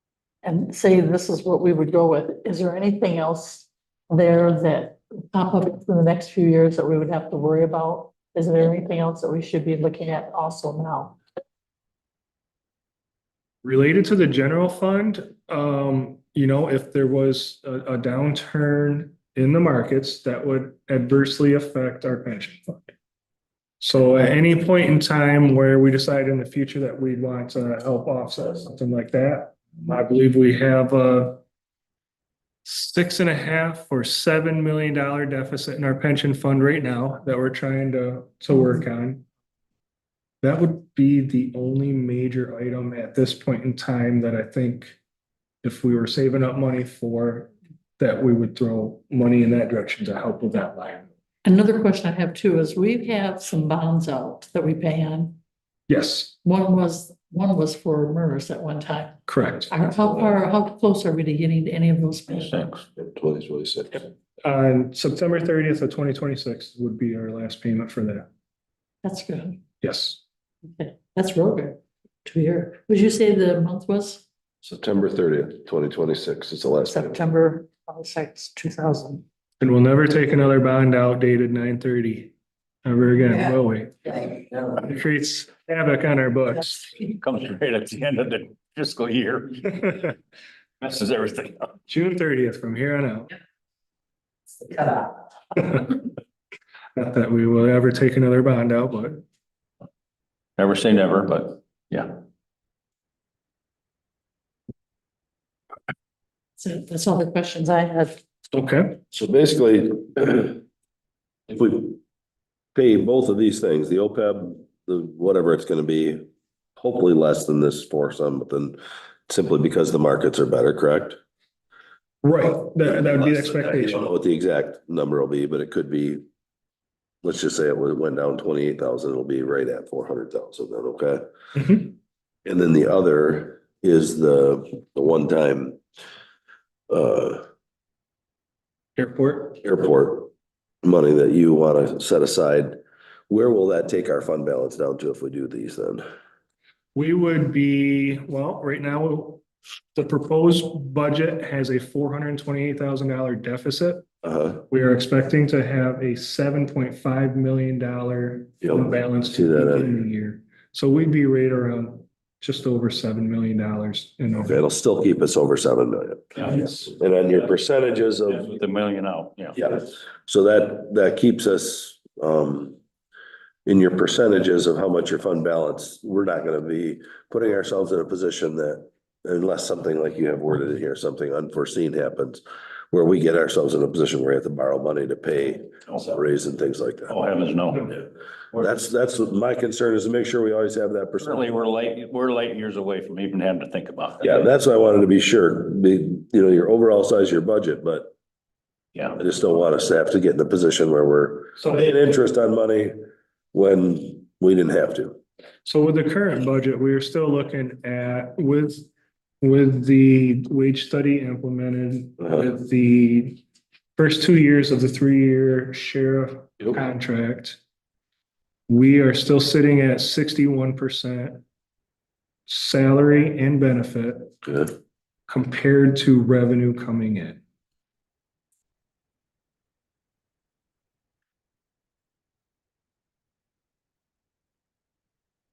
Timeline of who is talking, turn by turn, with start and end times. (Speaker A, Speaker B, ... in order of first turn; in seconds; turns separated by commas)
Speaker A: 0.4-11.2, Speaker B: 13.6-22.9, Speaker B: 23.8-31.4, Speaker B: 32.6-39.2, Speaker B: 40.4-45.0, Speaker B: 45.6-51.1, Speaker A: 51.4-55.4, Speaker B: 55.9-56.3, Speaker A: 56.4-62.7, Speaker B: 59.2-59.7, Speaker C: 62.3-62.8, Speaker D: 63.0-64.0, Speaker B: 64.4-68.3, Speaker A: 69.0-69.6, Speaker B: 69.8-70.2, Speaker A: 70.7-74.2, Speaker D: 74.6-77.2, Speaker A: 76.9-79.2, Speaker B: 79.6-82.3, Speaker B: 82.8-86.9, Speaker C: 87.0-90.0, Speaker C: 90.8-91.8, Speaker B: 91.9-93.3, Speaker A: 94.7-95.1, Speaker B: 95.5-96.0, Speaker B: 97.0-99.2, Speaker C: 100.6-102.2, Speaker A: 106.6-108.2, Speaker B: 108.5-109.0, Speaker D: 109.1-110.6, Speaker D: 111.5-112.0, Speaker D: 112.7-116.2, Speaker D: 116.8-121.2, Speaker B: 122.2-124.1, Speaker D: 122.8-126.2, Speaker D: 127.2-131.2, Speaker B: 131.5-131.9, Speaker D: 132.4-135.8, Speaker D: 136.9-137.4, Speaker B: 139.0-139.6, Speaker D: 139.6-140.3, Speaker D: 140.8-142.8, Speaker D: 143.3-146.0, Speaker B: 146.9-149.4, Speaker B: 149.9-154.1, Speaker D: 154.2-154.6, Speaker B: 154.7-164.6, Speaker D: 158.6-160.0, Speaker D: 164.4-168.5, Speaker B: 166.4-166.9, Speaker C: 168.3-169.6, Speaker D: 169.5-172.8, Speaker D: 173.7-187.2, Speaker C: 187.1-187.9, Speaker D: 188.5-191.4, Speaker C: 191.2-194.4, Speaker D: 194.2-198.1, Speaker C: 198.9-199.2, Speaker D: 199.2-202.9, Speaker B: 201.6-201.9, Speaker D: 203.5-205.2, Speaker B: 205.7-208.9, Speaker B: 209.4-213.4, Speaker B: 213.9-217.6, Speaker B: 218.7-221.4, Speaker B: 222.5-224.6, Speaker B: 225.3-227.4